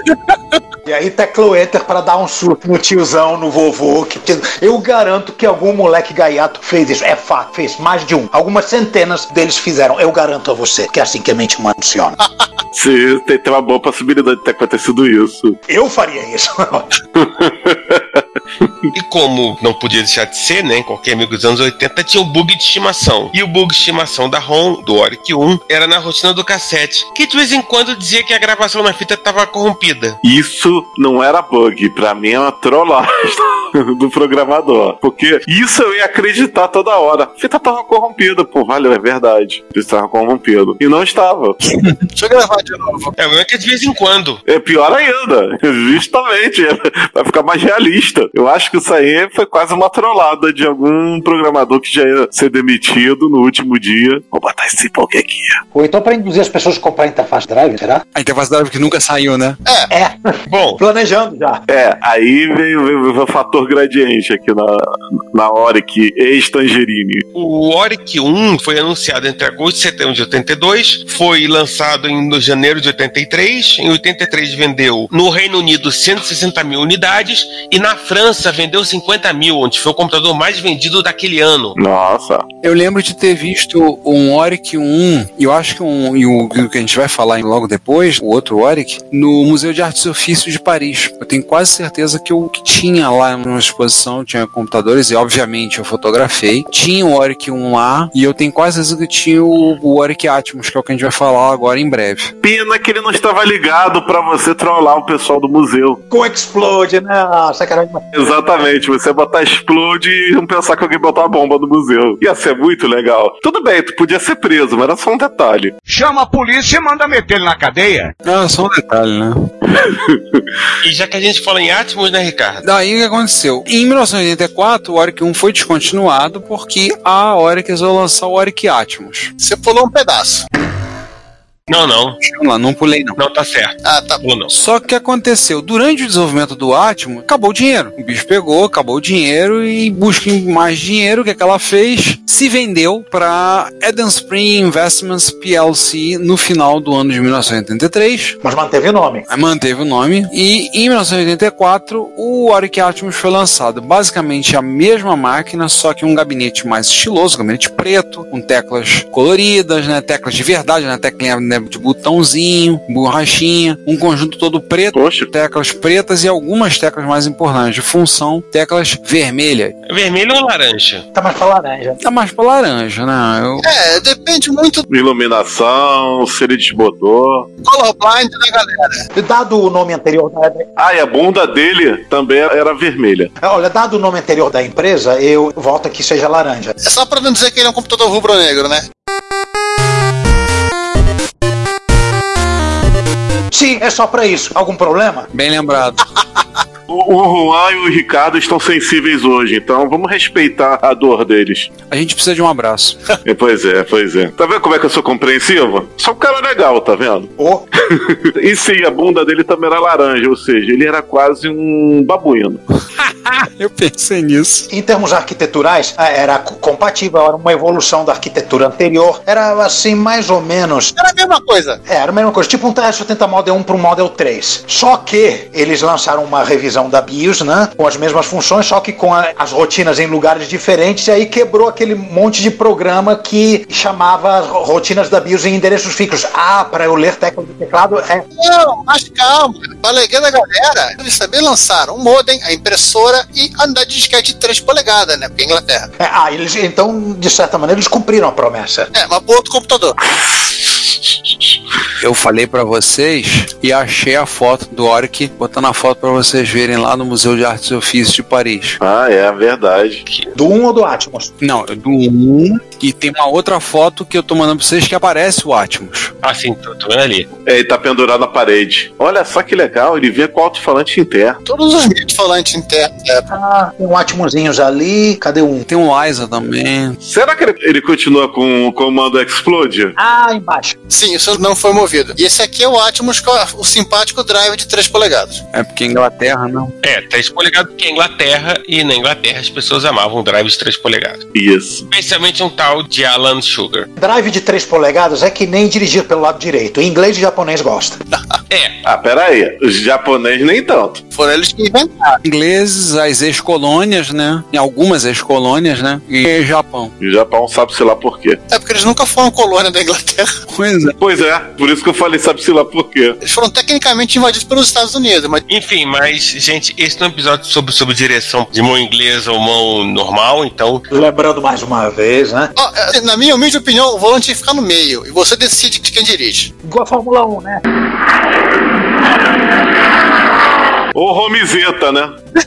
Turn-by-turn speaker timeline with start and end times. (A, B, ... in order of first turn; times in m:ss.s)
0:00.8-0:12.2 A
0:12.2-0:12.5 B
0:12.7-0:15.6 C
0:15.7-0:16.9 A
0:17.1-0:18.7 C
0:18.9-0:30.2 D
0:30.2-0:41.6 C
0:42.2-0:43.1 B
0:43.2-0:44.4 D
0:44.5-0:55.6 C
0:55.7-0:58.0 A
0:58.1-0:59.6 E
0:59.9-1:01.6 A
1:00.5-1:00.8 D
1:01.7-1:07.2 C
1:07.4-1:21.8 D
1:21.8-1:22.5 C
1:22.6-1:42.3 E
1:42.4-1:46.0 C
1:46.1-1:48.0 A
1:48.1-1:55.8 C
1:55.9-1:58.1 F
1:58.2-1:59.5 E
1:59.8-2:00.4 C
2:00.8-2:02.6 D
2:02.6-2:09.3 E
2:09.4-2:10.5 B
2:11.7-2:12.2 D
2:12.2-2:13.2 E
2:13.2-2:14.5 D
2:13.8-2:14.2 B
2:14.5-2:28.4 E
2:28.4-2:29.3 A
2:29.3-2:49.8 E
2:44.9-2:45.3 C
2:49.9-2:51.0 D
2:51.1-2:52.0 A
2:52.0-2:53.6 E
2:53.6-2:54.8 B
2:54.9-2:57.5 C
2:57.6-2:59.1 B
2:59.1-3:00.7 A
3:00.8-3:03.3 C
3:03.4-3:06.8 A
3:06.8-3:08.8 B
3:13.5-3:15.3 A
3:15.3-3:16.0 E
3:16.9-3:21.7 C
3:21.8-3:23.0 E
3:23.2-3:27.3 C
3:27.4-3:27.7 A
3:28.0-3:32.6 C
3:33.0-3:34.7 E
3:34.7-3:40.9 A
3:41.0-3:41.8 B
3:41.9-3:58.2 A
3:58.4-4:05.9 B
4:06.0-4:08.9 A
4:08.9-4:10.0 B
4:10.1-4:11.6 C
4:12.0-4:18.8 E
4:18.8-4:20.0 C
4:20.4-4:21.3 A
4:21.4-4:26.1 E
4:26.2-4:27.3 D
4:27.5-4:31.4 C
4:31.5-4:33.3 B
4:33.3-4:35.6 A
4:35.6-4:37.0 E
4:37.0-4:40.0 C
4:40.0-4:40.8 A
4:40.9-4:45.4 B
4:45.5-4:46.7 E
4:46.8-4:51.3 D
4:51.3-4:51.8 C
4:51.9-4:53.9 D
4:54.0-4:58.0 A
4:58.1-4:58.4 B
4:58.5-4:58.8 D
4:58.8-5:01.0 C
5:01.1-5:02.2 B
5:02.2-5:06.9 E
5:07.0-5:08.4 C
5:08.5-5:10.3 B
5:10.5-5:11.0 E
5:11.0-5:13.2 C
5:13.2-5:15.4 B
5:15.5-5:20.8 D
5:20.9-5:22.5 A
5:22.6-5:26.5 B
5:26.6-5:27.6 A
5:30.9-5:32.2 C